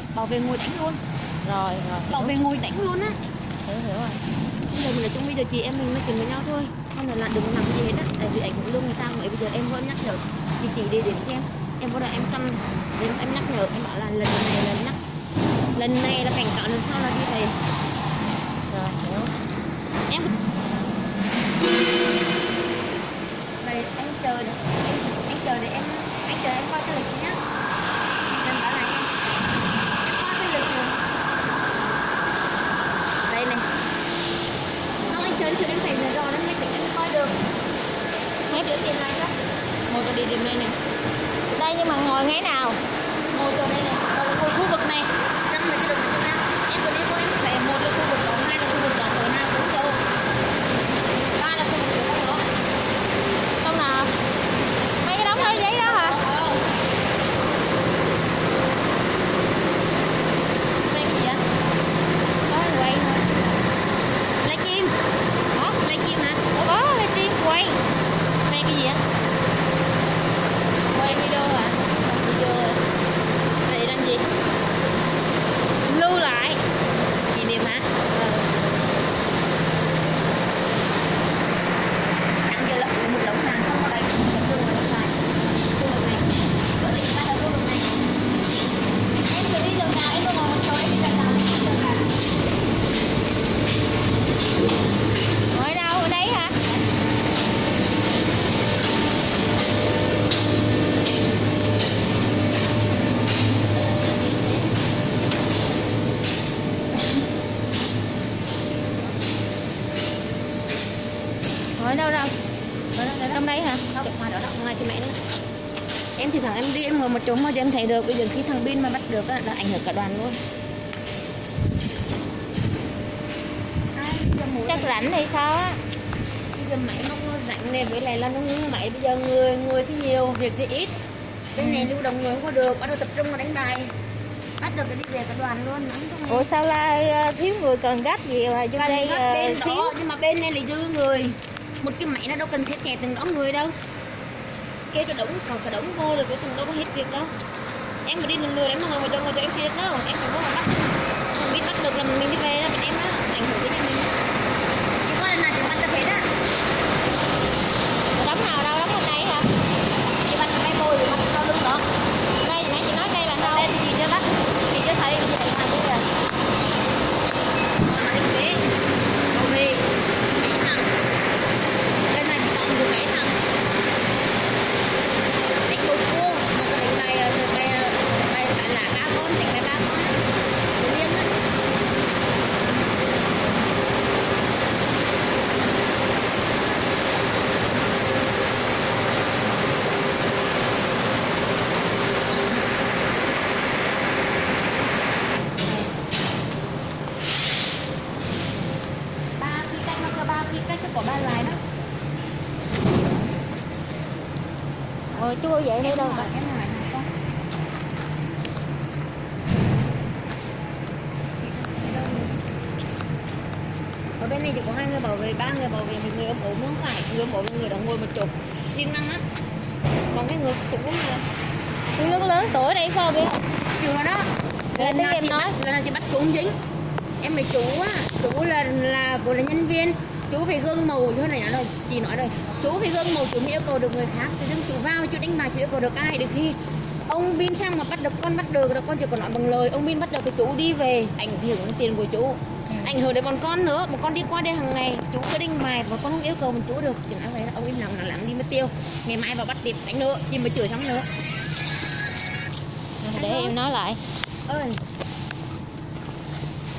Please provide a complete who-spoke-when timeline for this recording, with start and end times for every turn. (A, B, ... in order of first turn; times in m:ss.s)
0:00.1-0:01.0 A
0:01.4-0:02.3 B
0:02.1-0:03.2 A
0:03.6-0:04.2 B
0:04.7-0:15.0 A
0:15.7-0:17.6 A
0:18.7-0:19.3 B
0:23.6-0:27.4 A
0:28.3-0:29.1 A
0:30.0-0:31.0 A
0:33.3-0:33.6 A
0:35.1-0:37.4 A
0:38.5-0:39.3 A
0:39.9-0:40.8 A
0:41.5-0:42.8 B
0:43.3-0:50.0 A
0:51.4-0:52.5 A
0:53.6-0:54.1 B
0:55.0-0:56.2 B
0:55.3-0:56.6 A
1:00.9-1:01.4 A
1:02.5-1:03.6 B
1:04.4-1:04.9 A
1:05.8-1:06.4 A
1:06.5-1:07.8 B
1:08.5-1:09.0 A
1:10.9-1:12.8 B
1:13.6-1:14.2 A
1:15.8-1:16.6 B
1:17.3-1:17.9 A
1:18.1-1:18.8 B
1:22.5-1:28.0 A
1:29.3-1:32.1 A
1:35.5-1:36.5 B
1:51.8-1:52.3 B
1:53.0-1:55.2 A
1:53.3-1:53.8 B
1:56.2-2:00.4 A
2:03.9-2:05.0 A
2:04.6-2:05.8 B
2:06.5-2:10.9 A
2:11.5-2:13.9 A
2:11.6-2:11.9 B
2:14.6-2:16.5 A
2:16.3-2:19.9 B
2:18.8-2:23.7 A
2:24.9-2:27.3 A
2:28.0-2:34.1 A
2:35.0-2:36.3 A
2:38.2-2:39.5 B
2:40.2-2:41.8 A
2:42.4-2:43.7 B
2:43.4-2:46.0 A
2:47.8-2:48.6 A
2:49.3-2:49.9 A
2:50.4-2:50.9 A
2:52.1-2:53.3 A
2:55.6-3:00.2 A
3:00.8-3:01.3 A
3:19.4-3:21.6 A
3:25.1-3:26.3 B
3:25.8-3:27.1 A
3:31.4-3:32.3 A
3:34.2-3:39.2 A
3:40.1-3:41.2 A
3:42.0-3:43.4 B
3:42.0-3:42.4 A
3:43.8-3:46.5 A
3:44.8-3:45.5 B
3:47.2-3:56.6 A
3:57.1-4:11.1 A
4:13.0-4:14.0 B
4:13.1-4:13.6 A
4:14.5-4:14.8 A